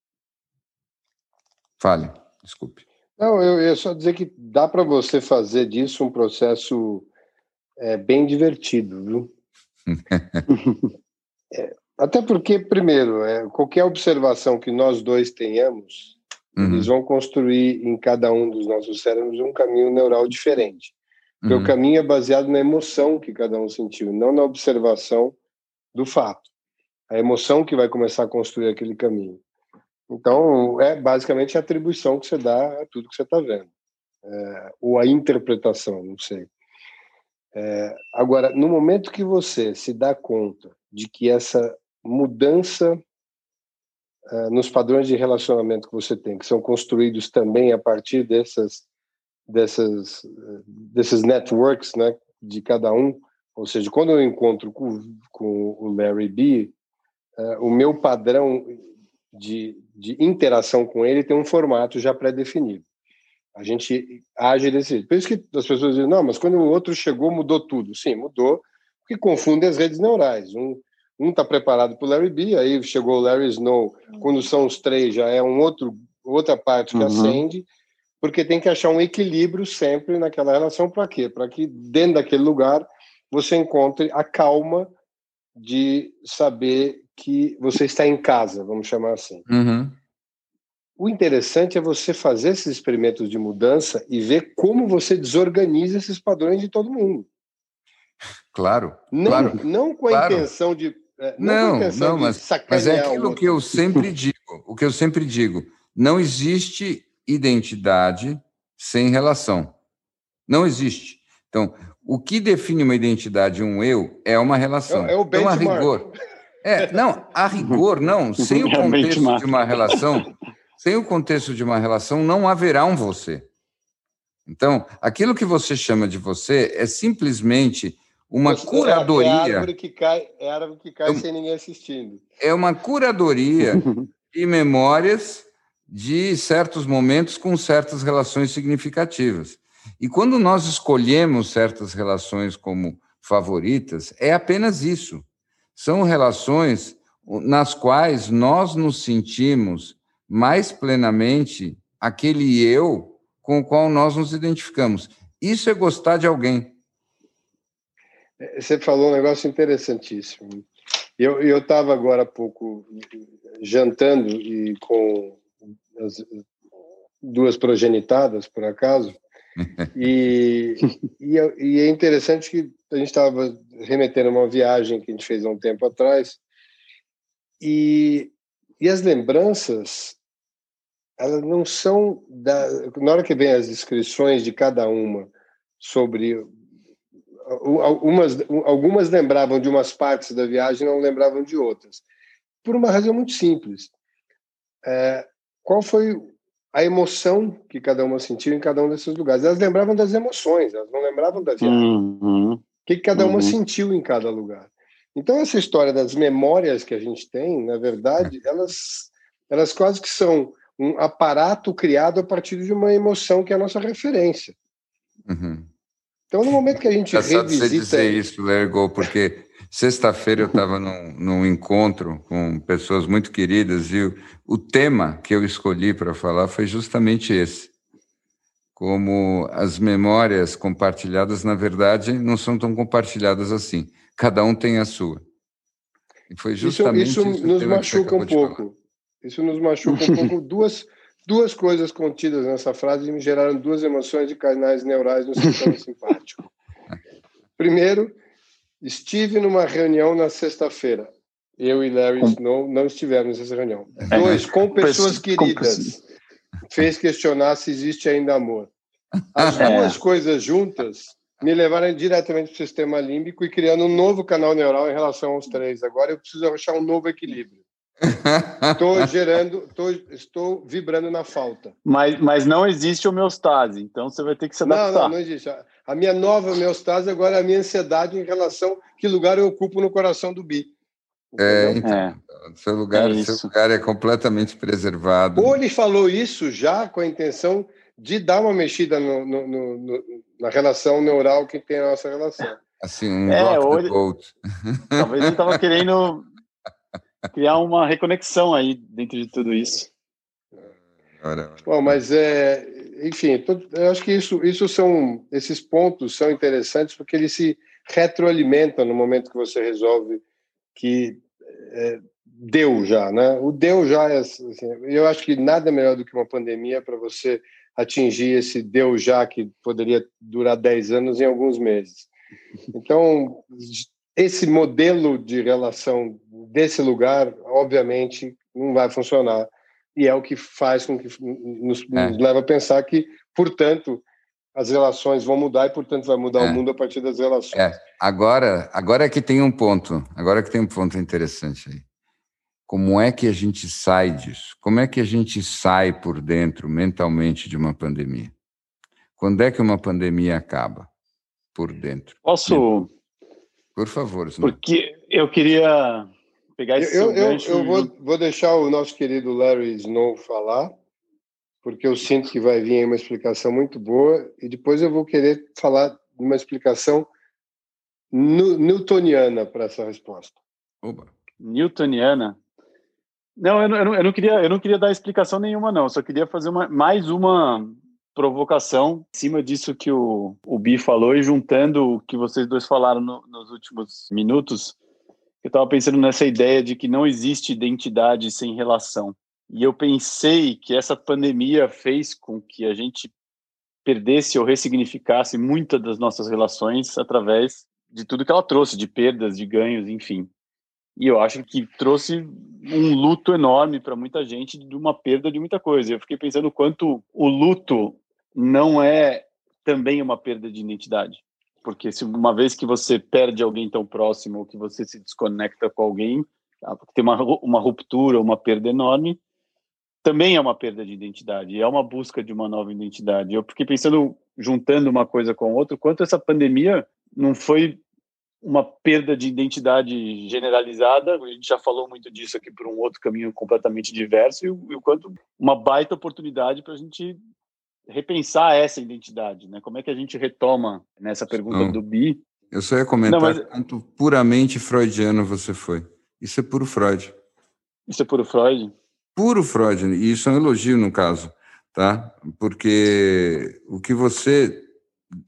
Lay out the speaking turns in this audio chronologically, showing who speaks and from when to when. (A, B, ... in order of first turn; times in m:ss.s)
0:01.8-0:02.8 A
0:03.2-0:07.1 B
0:07.8-0:09.3 B
0:09.9-0:10.4 A
0:10.5-0:10.8 C
0:11.5-0:20.9 B
0:16.6-0:16.9 A
0:21.4-0:21.7 A
0:21.5-0:25.4 B
0:25.9-0:26.5 B
0:27.1-0:29.4 B
0:30.1-0:33.7 B
0:34.2-0:36.5 B
0:37.6-0:43.0 B
0:44.3-0:48.8 B
0:49.5-0:56.7 B
0:57.4-1:02.8 B
1:03.6-1:17.7 B
1:16.9-1:17.4 C
1:18.2-1:24.9 B
1:25.6-1:29.4 B
1:29.5-1:30.0 A
1:31.0-1:37.3 B
1:38.5-1:40.5 A
1:39.1-1:43.6 B
1:41.4-1:49.8 A
1:50.5-1:56.1 A
1:54.9-1:56.1 B
1:56.6-2:00.3 A
1:58.4-2:00.3 C
2:00.8-2:03.5 A
2:04.5-2:09.7 A
2:08.4-2:12.2 B
2:12.4-2:25.2 A
2:13.7-2:14.0 C
2:25.8-2:36.8 A
2:38.4-2:40.7 B
2:41.2-2:43.1 B
2:43.6-2:46.4 B
2:47.2-2:49.2 B
2:49.9-2:56.4 B
2:57.6-3:00.2 B
3:01.2-3:06.5 B
3:07.5-3:12.0 B
3:12.6-3:13.9 B
3:14.8-3:21.9 B
3:21.6-3:22.6 C
3:22.8-3:34.6 B
3:23.2-3:23.6 C
3:35.3-3:35.7 A
3:36.3-3:38.2 B
3:37.1-3:47.7 A
3:48.8-3:55.2 A
3:56.3-3:58.6 A
3:56.6-4:06.5 B
4:07.6-4:08.1 B
4:08.8-4:16.0 B
4:14.0-4:14.4 A
4:14.1-4:16.0 C
4:16.7-4:18.7 B
4:19.4-4:27.6 B
4:19.4-4:19.7 A
4:19.6-4:20.0 C
4:28.0-4:29.1 A
4:28.8-4:31.7 B
4:31.8-4:35.1 C
4:34.6-4:40.7 B
4:41.3-4:41.8 B
4:41.4-4:45.6 A
4:41.8-4:42.2 C
4:42.9-4:43.5 C
4:45.4-4:52.6 B
4:52.8-4:55.6 A
4:53.3-4:54.0 C
4:55.0-4:56.3 C
4:57.3-4:59.9 C
5:01.2-5:02.0 A
5:01.6-5:10.2 B
5:10.8-5:22.1 B
5:22.7-5:34.0 B
5:34.6-5:37.6 B
5:37.5-5:41.9 A
5:42.7-5:48.3 A
5:49.2-5:50.9 A
5:51.6-5:52.6 A
5:52.2-5:52.9 C
5:53.8-5:54.6 A
5:54.4-5:57.9 C
5:56.8-6:00.7 B
6:01.6-6:07.1 B
6:08.1-6:10.3 B
6:10.8-6:11.1 A
6:11.4-6:12.4 C
6:13.4-6:24.8 C
6:25.4-6:33.1 C
6:33.8-6:40.3 C
6:41.0-6:59.2 C
7:00.0-7:07.8 C
7:08.4-7:17.2 C
7:17.9-7:22.2 C
7:21.5-7:21.8 A
7:22.5-7:27.2 A
7:23.1-7:23.4 C
7:27.9-7:28.7 C
7:29.2-7:34.7 A